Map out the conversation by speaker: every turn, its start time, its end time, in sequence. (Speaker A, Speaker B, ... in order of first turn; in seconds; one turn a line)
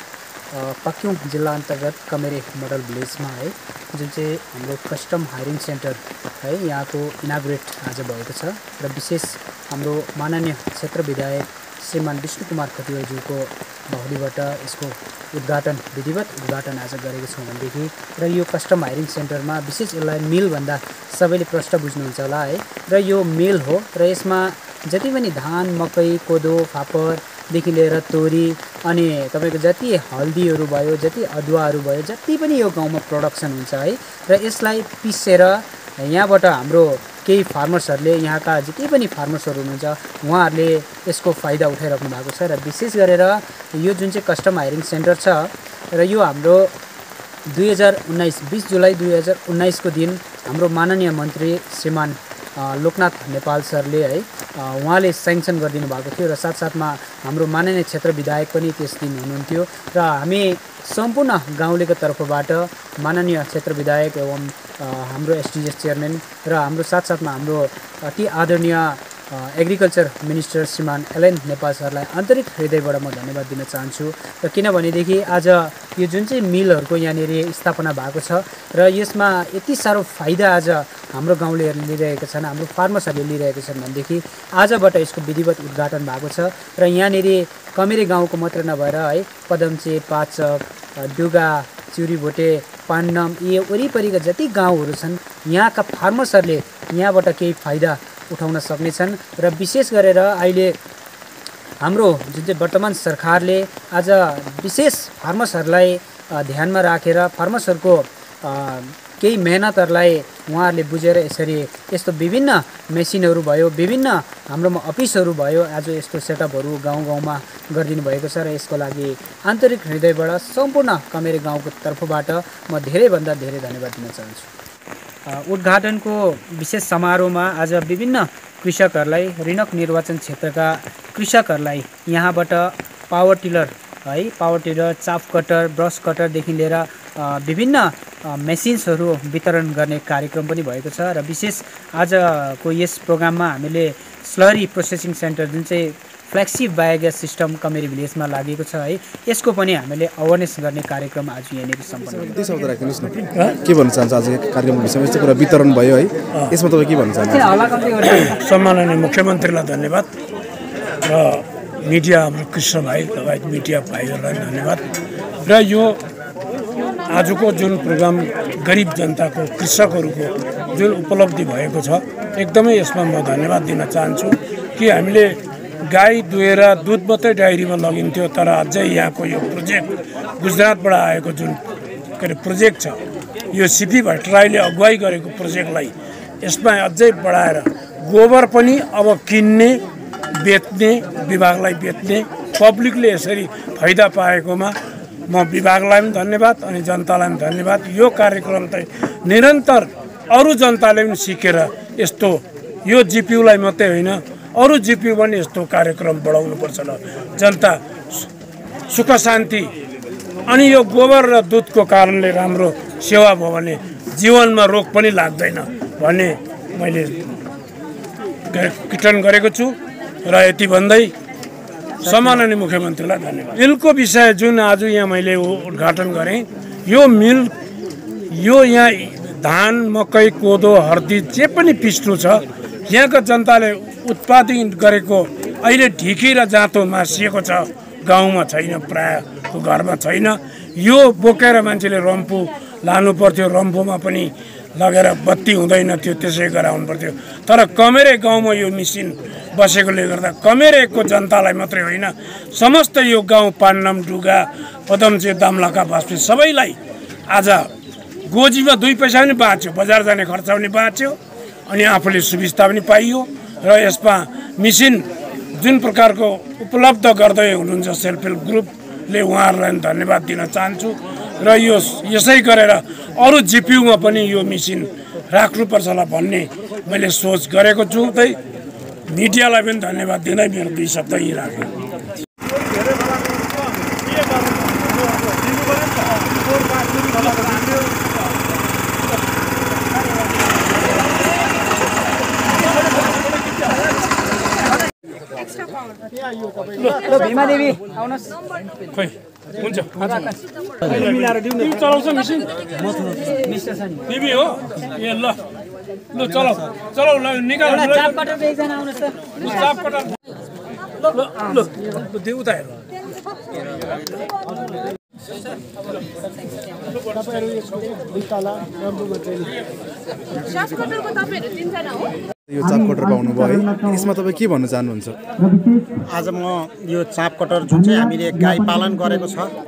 Speaker A: 0.5-46.7
Speaker A: 47.5-100.8
Speaker A: 101.8-124.5
Speaker A: 125.3-152.4
Speaker B: 152.2-157.6
Speaker A: 157.2-158.4
Speaker C: 158.1-160.1
Speaker C: 161.1-164.8
Speaker C: 165.4-166.0
Speaker C: 167.1-181.6
Speaker C: 182.2-183.0
Speaker C: 183.5-189.8
Speaker C: 190.4-194.7
Speaker C: 195.3-208.3
Speaker C: 208.9-209.7
Speaker C: 210.5-217.2
Speaker C: 218.5-221.1
Speaker A: 222.0-222.4
Speaker C: 222.0-227.5
Speaker C: 228.3-257.7
Speaker C: 258.2-278.4
Speaker C: 279.1-281.7
Speaker C: 286.9-287.8
Speaker C: 296.8-297.3
Speaker A: 297.0-298.3
Speaker C: 298.9-302.7
Speaker A: 300.1-300.3
Speaker A: 302.8-304.1
Speaker C: 304.1-305.4
Speaker C: 306.1-308.2
Speaker A: 307.6-309.6
Speaker C: 309.4-310.1
Speaker C: 311.0-312.8
Speaker B: 320.4-321.3
Speaker B: 322.5-325.2
Speaker A: 322.6-324.1
Speaker A: 325.4-326.0
Speaker D: 326.1-329.5
Speaker A: 327.6-329.3